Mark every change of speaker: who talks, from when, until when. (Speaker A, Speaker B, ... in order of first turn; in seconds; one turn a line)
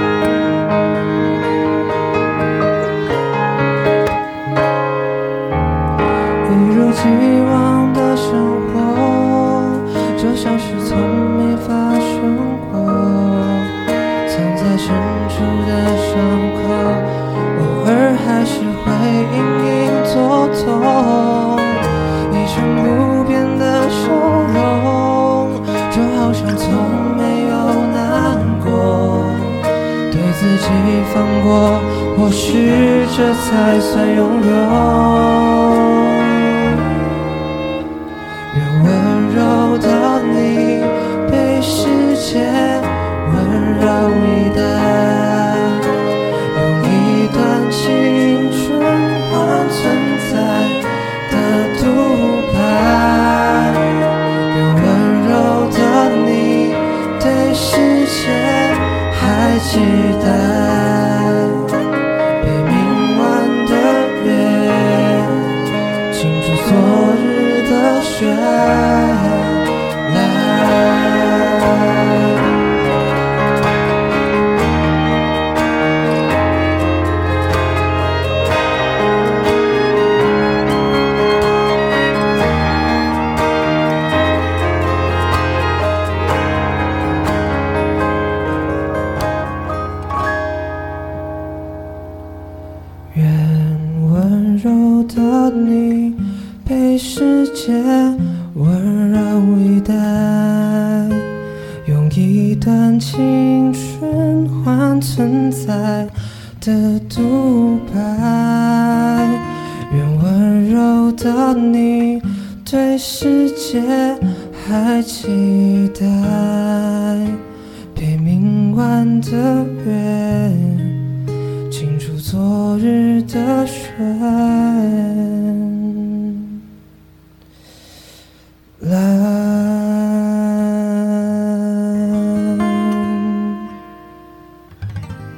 Speaker A: 6.4-36.8
Speaker A: 38.5-45.9
Speaker A: 46.5-53.9
Speaker A: 54.5-61.6
Speaker A: 62.4-65.5
Speaker A: 66.1-72.1
Speaker A: 93.1-101.2
Speaker A: 101.8-117.4
Speaker A: 117.9-121.0
Speaker A: 121.7-126.5
Speaker A: 128.8-133.4